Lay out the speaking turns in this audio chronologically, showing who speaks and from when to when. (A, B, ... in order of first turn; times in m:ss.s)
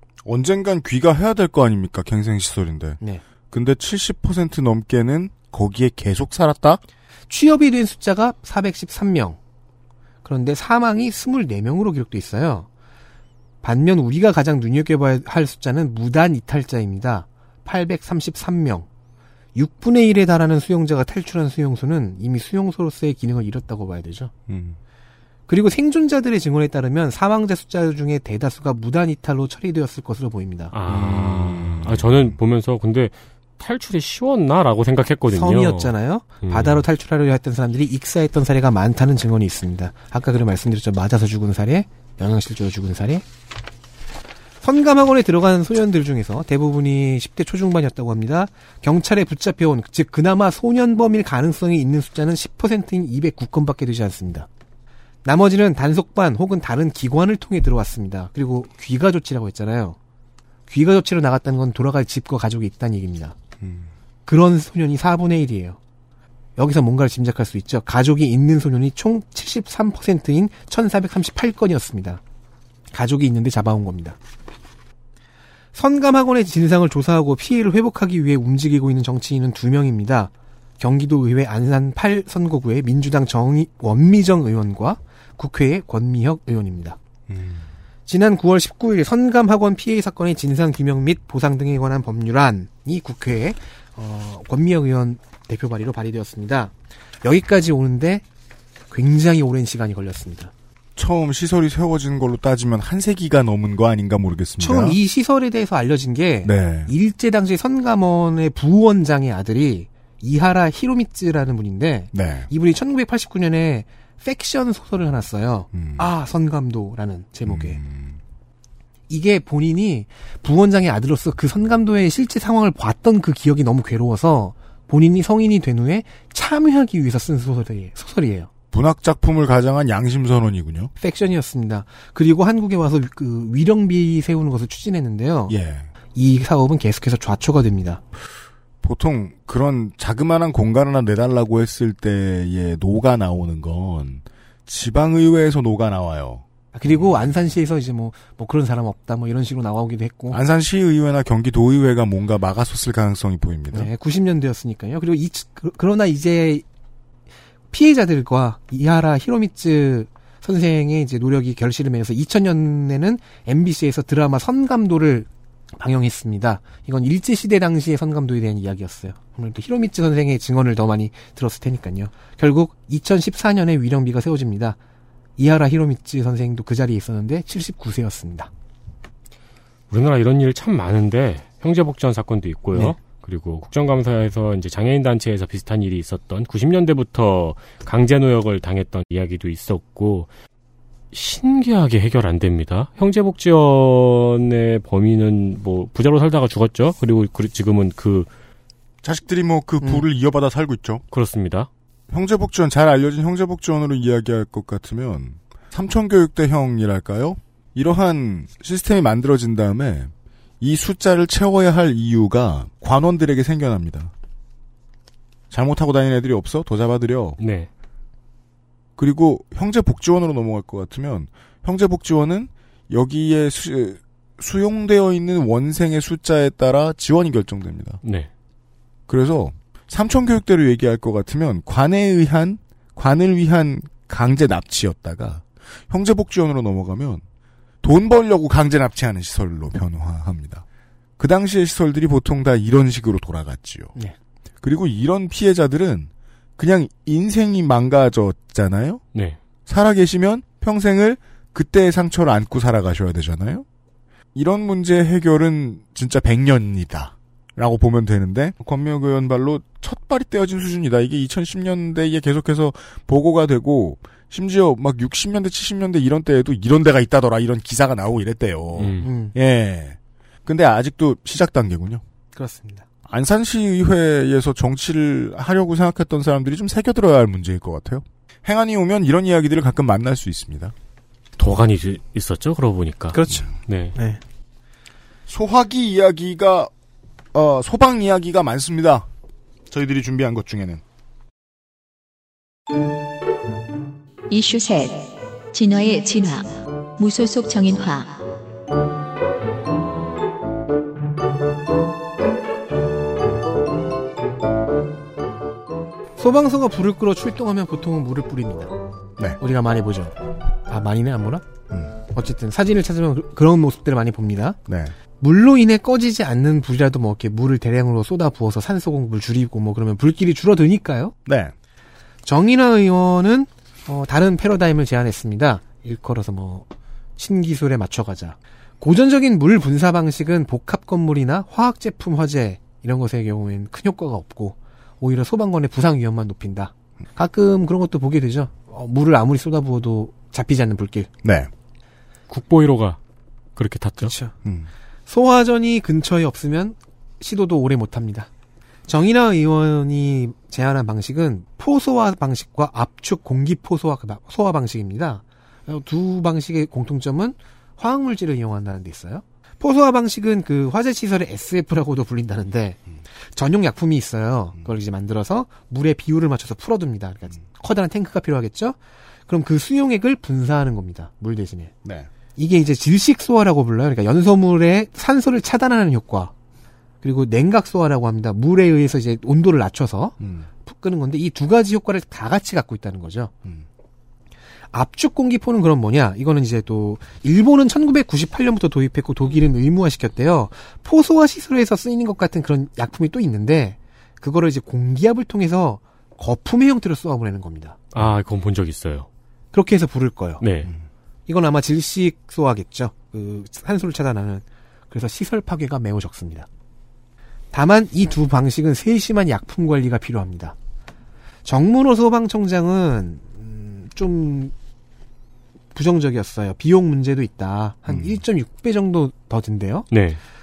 0:00.2-0:03.0 A
0:03.5-0:06.8 A
0:07.3-0:09.4 B
0:10.2-0:12.7 B
0:13.6-0:18.9 B
0:19.6-0:24.3 B
0:24.5-0:24.8 A
0:25.5-0:30.7 B
0:30.7-0:35.9 C
0:30.9-0:32.4 A
0:35.3-0:43.2 B
0:36.4-0:36.8 C
0:44.6-0:54.5 B
0:55.2-1:00.0 B
1:00.7-1:03.4 B
1:03.6-1:03.9 A
1:04.3-1:05.8 B
1:06.6-1:12.2 B
1:12.9-1:14.2 B
1:15.8-1:27.0 B
1:27.3-1:27.7 A
1:28.1-1:38.2 B
1:38.9-1:40.5 B
1:41.0-1:45.0 A
1:44.6-1:57.8 B
1:46.4-1:46.9 A
1:52.1-1:52.5 A
1:55.7-1:56.1 A
1:57.4-1:58.2 A
1:59.1-2:08.5 B
2:08.7-2:10.9 A
2:11.0-2:15.6 B
2:15.5-2:15.9 A
2:16.2-2:18.0 B
2:18.8-2:27.1 A
2:26.7-2:30.4 B
2:30.3-2:33.9 A
2:33.7-2:36.6 B
2:37.7-2:54.8 B
2:55.4-2:58.5 B
2:59.9-3:10.3 C
3:11.1-3:18.3 C
3:19.0-3:21.0 A
3:21.1-3:21.7 C
3:22.1-3:34.1 A
3:35.5-3:37.4 A
3:37.4-3:37.7 C
3:39.0-3:48.0 A
3:48.0-3:48.3 C
3:49.1-3:57.2 A
3:57.8-4:00.6 A
4:01.2-4:03.9 A
4:04.6-4:09.0 A
4:09.7-4:13.6 A
4:14.3-4:32.0 A
4:28.8-4:29.1 C
4:29.0-4:29.4 B
4:32.4-4:32.8 B
4:33.1-4:40.7 A
4:41.4-4:44.0 C
4:43.1-4:44.2 B
4:45.3-4:46.7 A
4:47.3-4:49.1 A
4:49.7-4:50.8 A
4:54.3-4:58.2 D
5:06.2-5:08.7 B
5:09.4-5:10.1 B
5:10.7-5:11.5 B
5:12.1-5:14.6 B
5:14.7-5:15.0 A
5:15.2-5:21.1 B
5:21.3-5:21.5 A
5:22.2-5:26.7 B
5:27.2-5:41.1 B
5:41.2-5:41.5 A
5:42.3-5:43.0 C
5:43.6-5:44.1 C
5:44.0-5:44.3 B
5:44.4-5:44.7 A
5:45.1-5:48.3 B
5:48.9-6:02.8 B
6:03.4-6:08.8 B
6:09.3-6:11.7 B
6:12.4-6:16.3 B
6:17.0-6:23.3 B
6:20.2-6:20.5 A
6:24.7-6:37.8 B
6:37.9-6:39.1 C
6:39.5-6:40.4 B
6:40.4-6:40.7 C
6:41.3-6:46.5 B
6:47.5-6:50.6 B
6:51.4-6:54.5 B
6:55.8-6:59.9 B
6:57.9-6:58.2 A
6:59.9-7:00.2 C